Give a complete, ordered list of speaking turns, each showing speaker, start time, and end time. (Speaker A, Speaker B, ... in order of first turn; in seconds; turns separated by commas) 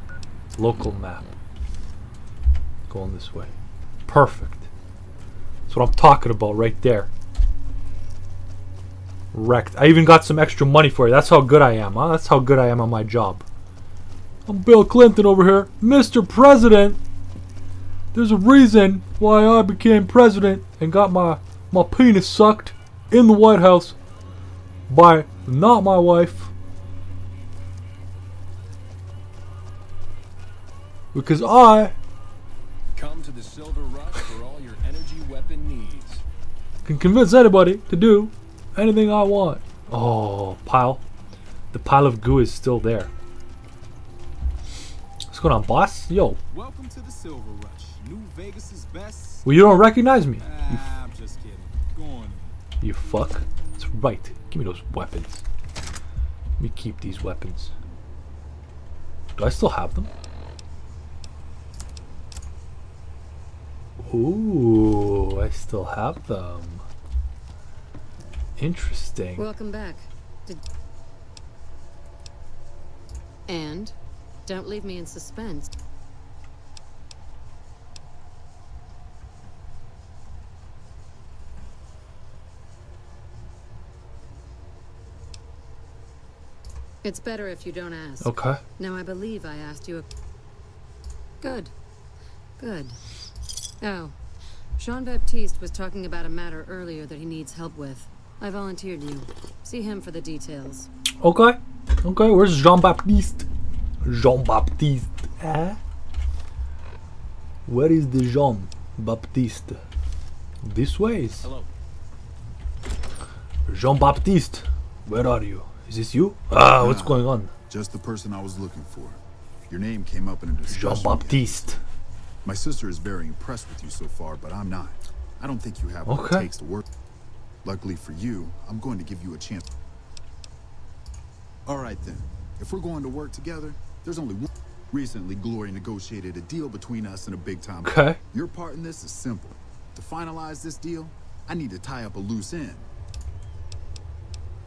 Speaker A: 0.6-1.3, Speaker A: 2.9-3.5, Speaker A: 4.1-4.7, Speaker A: 5.7-7.1, Speaker A: 9.3-13.4, Speaker A: 14.5-17.0, Speaker A: 18.1-24.0, Speaker A: 24.9-26.5, Speaker A: 31.1-31.9, Speaker B: 33.0-36.2, Speaker A: 36.9-41.0, Speaker A: 41.7-43.1, Speaker A: 45.3-46.4, Speaker B: 46.5-49.6, Speaker A: 49.5-50.9, Speaker B: 50.4-52.6, Speaker A: 52.8-55.5, Speaker A: 56.6-57.7, Speaker A: 59.4-60.1, Speaker A: 64.0-66.8, Speaker A: 68.6-69.5, Speaker C: 69.4-70.6, Speaker C: 73.5-73.9, Speaker C: 74.5-75.7, Speaker C: 87.0-90.1, Speaker A: 88.2-88.6, Speaker C: 91.4-91.7, Speaker C: 92.6-93.0, Speaker C: 93.8-94.2, Speaker C: 94.8-100.9, Speaker A: 101.2-103.5, Speaker A: 104.0-105.8, Speaker A: 107.7-109.8, Speaker A: 110.6-111.5, Speaker B: 111.4-111.7, Speaker A: 113.7-117.5, Speaker D: 116.6-121.8, Speaker A: 120.7-121.8, Speaker D: 122.5-126.9, Speaker A: 126.1-126.5, Speaker D: 127.6-129.6, Speaker D: 131.7-142.9, Speaker A: 137.8-138.2